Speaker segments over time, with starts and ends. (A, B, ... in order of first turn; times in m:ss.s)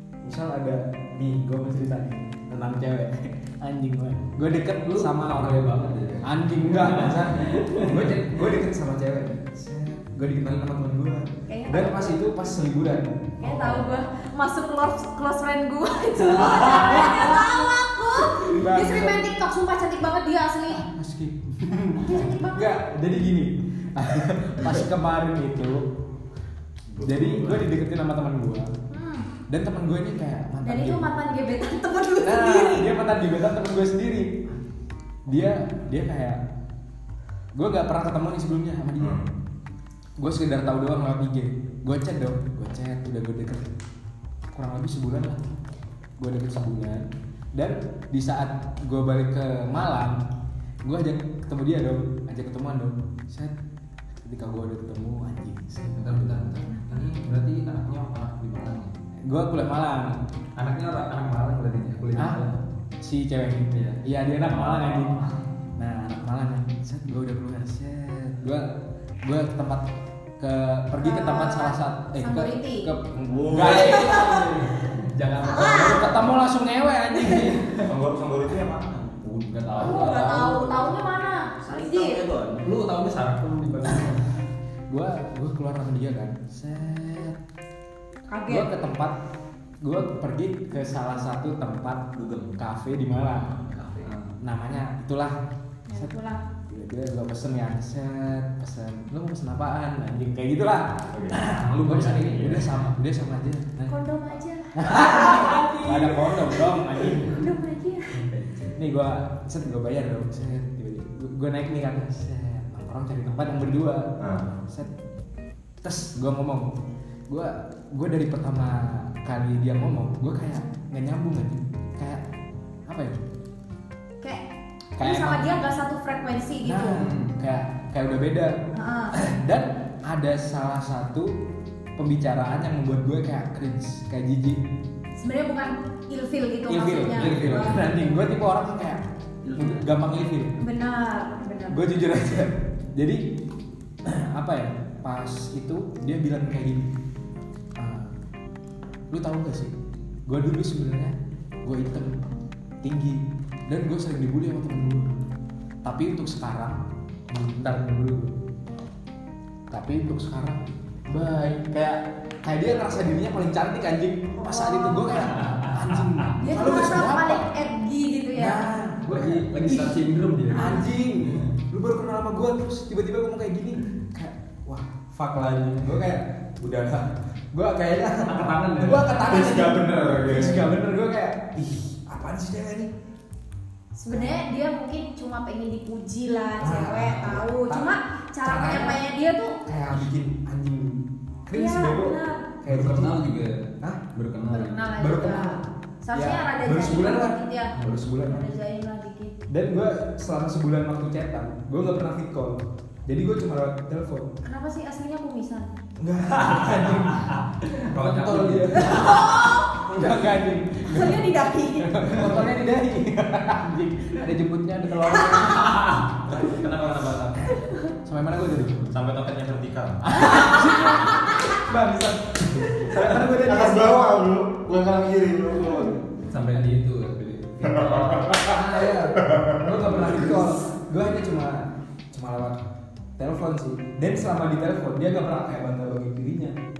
0:00.2-0:05.7 A
0:04.8-0:08.3 B
0:06.2-0:13.5 A
0:11.5-0:12.2 C
0:13.4-0:20.8 C
0:13.4-0:13.8 B
0:16.3-0:17.2 B
0:16.7-0:17.3 A
0:18.4-0:19.2 A
0:20.7-0:25.8 A
0:22.0-0:22.8 C
0:26.9-0:27.7 D
0:27.0-0:28.7 A
0:28.9-0:29.3 C
0:29.5-0:31.0 A
0:30.6-0:32.9 C
0:32.2-0:34.4 A
0:35.2-0:36.4 A
0:37.5-0:39.2 A
0:39.0-0:39.3 D
0:40.2-0:43.7 A
0:44.5-0:45.4 A
0:46.2-0:50.2 A
0:50.8-0:53.5 A
0:54.2-0:56.7 A
0:55.8-0:58.9 B
0:59.2-1:00.2 A
1:00.6-1:02.6 B
1:02.1-1:02.4 A
1:03.0-1:05.1 A
1:03.7-1:05.4 B
1:05.8-1:08.7 A
1:09.2-1:09.8 A
1:10.4-1:14.3 A
1:11.0-1:12.9 C
1:13.5-1:16.2 B
1:13.5-1:13.8 D
1:13.7-1:14.6 C
1:15.4-1:16.0 C
1:15.4-1:17.6 A
1:17.2-1:17.9 B
1:17.8-1:19.1 D
1:19.2-1:21.0 B
1:19.8-1:22.2 C
1:21.5-1:22.6 E
1:22.6-1:24.3 B
1:24.9-1:27.4 A
1:28.3-1:28.7 C
1:28.5-1:29.2 A
1:29.8-1:32.0 A
1:32.1-1:32.5 E
1:32.6-1:33.6 A
1:33.4-1:34.1 E
1:34.0-1:34.4 B
1:34.4-1:35.4 A
1:35.9-1:36.4 C
1:35.9-1:41.1 A
1:41.1-1:41.4 D
1:41.3-1:42.8 B
1:41.8-1:44.0 A
1:43.9-1:44.8 C
1:44.7-1:47.4 A
1:44.9-1:46.6 B
1:47.2-1:48.1 C
1:48.2-1:48.7 B
1:48.8-1:54.1 A
1:54.2-1:54.5 D
1:54.7-1:54.9 A
1:55.8-1:56.7 A
1:57.3-2:02.2 A
2:02.9-2:03.2 A
2:05.0-2:05.5 A
2:05.0-2:07.0 C
2:06.6-2:08.6 A
2:06.9-2:07.3 B
2:08.7-2:09.1 C
2:09.1-2:11.3 A
2:12.0-2:14.6 A
2:15.2-2:17.8 C
2:16.7-2:19.0 A
2:17.1-2:17.9 B
2:19.4-2:19.9 E
2:19.6-2:20.6 A
2:20.6-2:21.8 C
2:21.7-2:23.2 A
2:24.0-2:26.9 A
2:27.8-2:28.1 A
2:29.1-2:29.7 A
2:30.3-2:32.3 A
2:32.8-2:35.1 A
2:35.8-2:38.3 A
2:39.7-2:47.5 A
2:44.4-2:45.1 C
2:45.2-2:46.3 B
2:46.4-2:48.6 C
2:48.4-2:50.0 A
2:49.1-2:51.5 B
2:50.5-3:02.9 A
2:58.2-2:59.3 B
2:59.2-3:00.7 D
3:04.0-3:09.6 C
3:04.1-3:04.4 A
3:06.6-3:09.0 A
3:09.6-3:13.2 A
3:11.5-3:12.4 C
3:12.7-3:14.9 B
3:14.5-3:19.4 C
3:15.0-3:15.6 A
3:16.1-3:18.4 A
3:19.5-3:24.3 A
3:24.4-3:25.7 C
3:26.0-3:27.3 A
3:26.4-3:29.1 B
3:27.9-3:37.1 A
3:28.7-3:29.9 C
3:30.9-3:32.2 C
3:35.2-3:35.6 C
3:36.3-3:37.4 D
3:37.4-3:37.9 C
3:38.0-3:38.9 A
3:38.9-3:40.0 D
3:40.1-3:44.1 A
3:40.4-3:41.6 C
3:43.3-3:46.0 D
3:46.3-3:48.6 B
3:47.6-3:48.5 D
3:48.3-3:52.6 A
3:49.1-3:50.3 D
3:53.2-3:56.6 A